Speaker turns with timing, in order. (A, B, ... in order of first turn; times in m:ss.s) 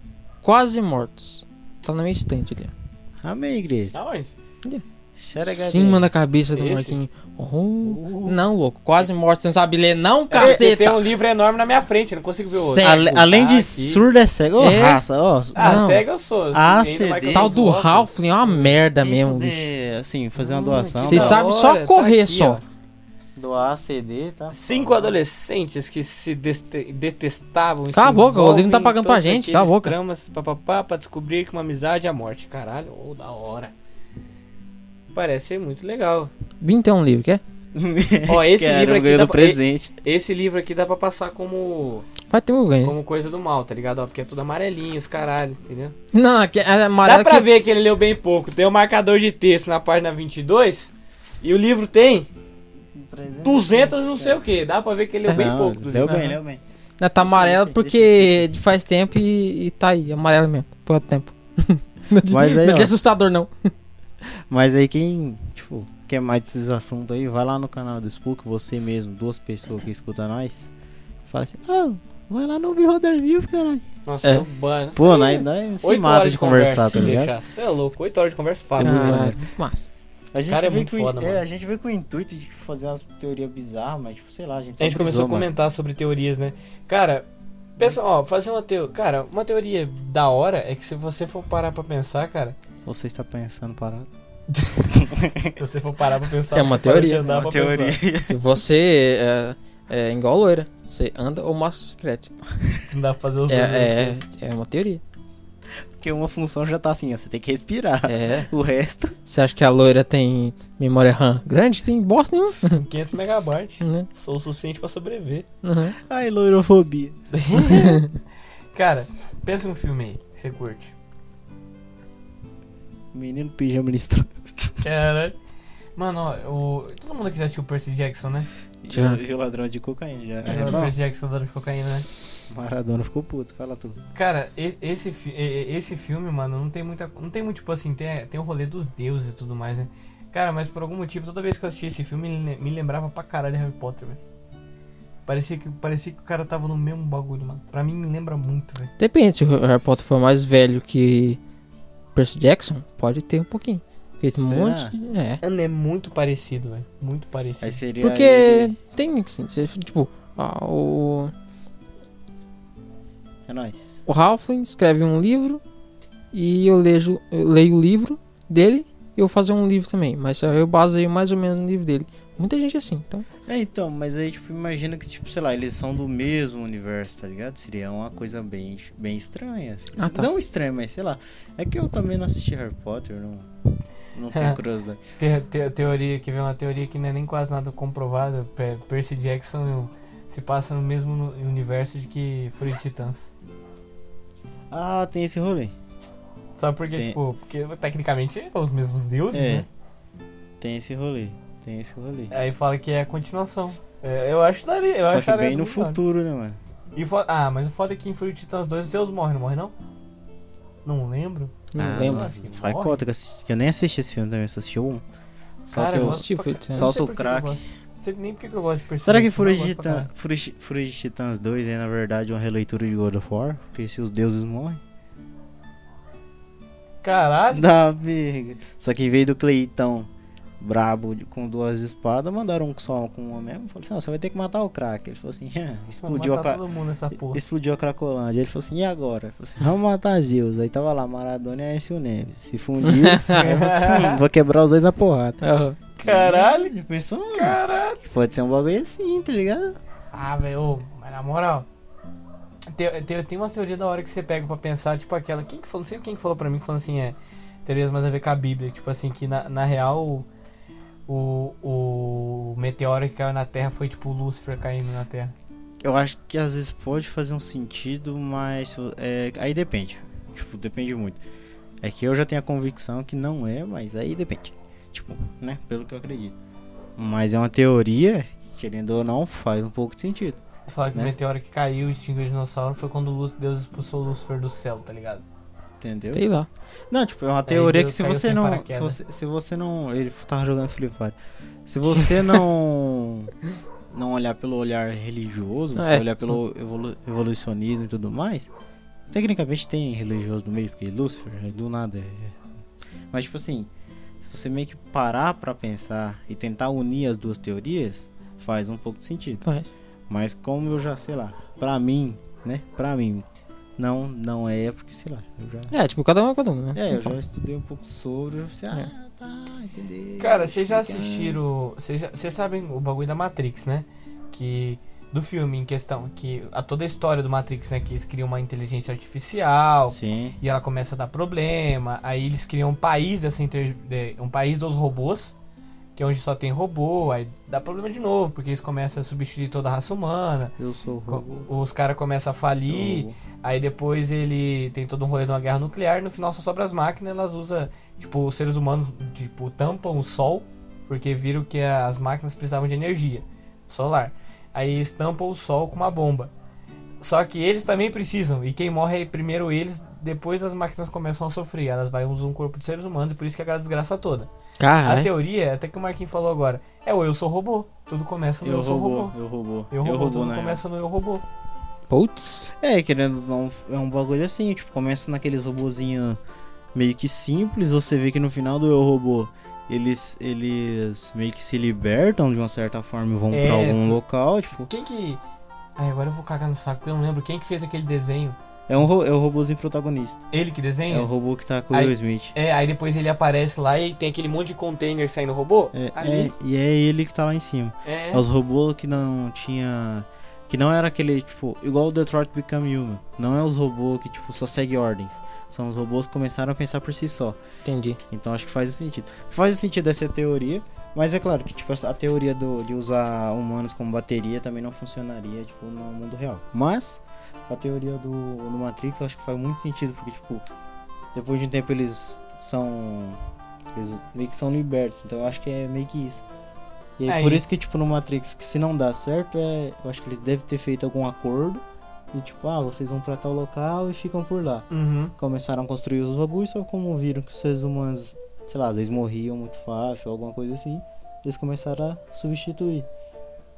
0:00.4-0:02.7 A
0:03.2-0:04.0 B
0:03.9-0:04.3 C
0:05.2-0:06.1 B
0:05.4-0:11.0 A
0:06.6-0:07.0 C
0:07.8-0:08.4 B
0:10.3-0:14.0 C
0:12.5-0:13.1 A
0:12.8-0:16.0 B
0:14.6-0:15.0 A
0:15.6-0:18.5 C
0:15.6-0:16.0 A
0:16.5-0:17.5 B
0:17.3-0:19.7 A
0:18.9-0:21.4 B
0:20.4-0:22.6 C
0:21.0-0:22.6 A
0:23.4-0:25.2 B
0:24.5-0:33.7 C
0:27.9-0:30.0 A
0:35.1-0:36.3 C
0:36.6-0:37.4 A
0:37.7-0:39.9 B
0:38.3-0:42.1 C
0:42.3-0:43.0 A
0:42.8-0:46.0 C
0:46.1-0:47.5 A
0:47.0-0:52.3 C
0:52.9-0:54.4 B
0:53.4-0:56.2 C
0:55.3-0:56.6 B
0:56.0-0:56.4 A
0:57.0-1:03.5 A
0:57.2-0:58.6 B
1:02.2-1:02.9 B
1:04.3-1:10.7 B
1:11.3-1:13.8 B
1:14.1-1:19.3 C
1:15.0-1:17.3 B
1:18.8-1:19.4 B
1:18.8-1:19.9 A
1:20.3-1:25.5 B
1:20.5-1:21.4 C
1:24.8-1:32.6 C
1:32.9-1:34.1 B
1:34.5-1:38.0 C
1:34.9-1:35.6 B
1:36.5-1:37.2 A
1:37.2-1:38.4 B
1:38.3-1:42.3 A
1:42.9-1:44.2 C
1:43.5-1:45.0 A
1:46.0-1:49.2 B
1:48.1-1:48.5 A
1:49.3-1:52.8 A
1:52.6-1:55.5 C
1:53.8-1:54.1 A
1:55.6-1:56.0 A
1:56.0-1:57.8 B
1:57.3-1:58.0 C
1:57.6-1:58.2 A
1:58.7-2:00.9 C
2:03.1-2:04.8 B
2:04.8-2:05.4 C
2:06.0-2:08.5 C
2:08.8-2:11.0 B
2:08.9-2:09.2 A
2:10.5-2:12.1 C
2:10.5-2:10.8 A
2:12.5-2:14.0 B
2:14.2-2:24.2 C
2:25.3-2:28.9 C
2:29.0-2:31.4 A
2:32.2-2:35.4 A
2:34.3-2:34.9 B
2:35.4-2:37.8 C
2:37.6-2:38.7 B
2:38.0-2:41.3 A
2:43.5-2:44.0 B
2:44.1-2:45.6 A
2:46.3-2:53.3 A
2:53.5-3:03.5 B
3:00.0-3:00.3 A
3:04.2-3:05.0 B
3:04.3-3:04.6 C
3:05.2-3:13.3 C
3:14.7-3:15.8 B
3:16.6-3:19.7 C
3:19.3-3:19.7 B
3:20.6-3:22.3 B
3:22.3-3:26.0 C
3:25.0-3:26.6 B
3:27.0-3:29.7 C
3:30.8-3:33.0 C
3:31.7-3:32.3 A
3:31.8-3:35.0 B
3:35.7-3:37.6 B
3:35.7-3:40.1 C
3:35.9-3:36.9 A
3:39.0-3:44.8 B
3:47.0-3:47.6 C
3:47.5-3:56.6 B
3:56.0-3:57.4 C
3:57.3-4:05.4 B
4:02.9-4:03.4 A
4:03.3-4:04.2 C
4:05.4-4:05.8 A
4:06.0-4:06.7 C
4:06.0-4:09.8 B
4:07.3-4:08.0 C
4:10.1-4:11.7 C
4:12.7-4:20.3 C
4:21.1-4:25.3 C
4:25.8-4:31.2 B
4:31.8-4:36.4 B
4:37.0-4:40.4 B
4:40.7-4:45.2 C
4:45.8-4:46.2 B
4:46.1-4:46.5 A
4:46.9-4:51.2 B
4:47.5-4:49.0 C
4:51.7-4:53.3 B
4:53.9-4:58.5 B
4:55.8-4:56.4 A
4:59.1-5:02.4 B
5:03.1-5:09.4 B
5:09.4-5:09.7 A
5:10.1-5:13.3 B
5:13.8-5:15.7 B
5:15.7-5:17.2 A
5:16.7-5:21.4 B
5:20.2-5:35.3 C
5:29.9-5:30.4 B
5:36.0-5:40.6 C
5:40.6-5:41.5 B
5:41.1-5:56.3 C
5:42.7-5:43.2 B
5:57.0-6:04.3 C
6:04.6-6:05.1 A
6:04.8-6:09.2 C
6:08.4-6:10.6 B
6:09.7-6:11.2 C
6:11.9-6:12.5 A
6:12.6-6:16.2 B
6:16.7-6:24.7 B
6:23.3-6:24.0 C
6:24.6-6:25.2 C
6:25.8-6:28.4 C
6:28.7-6:30.2 B
6:30.3-6:31.1 C
6:30.9-6:32.3 B
6:31.7-6:36.3 C
6:35.7-6:47.4 B
6:37.8-6:38.2 C
6:47.6-6:48.0 A
6:48.1-7:00.5 B
7:01.1-7:03.2 B
7:03.7-7:06.2 B
7:07.0-7:14.7 B
7:07.1-7:07.4 C
7:14.7-7:15.1 C
7:15.2-7:22.9 B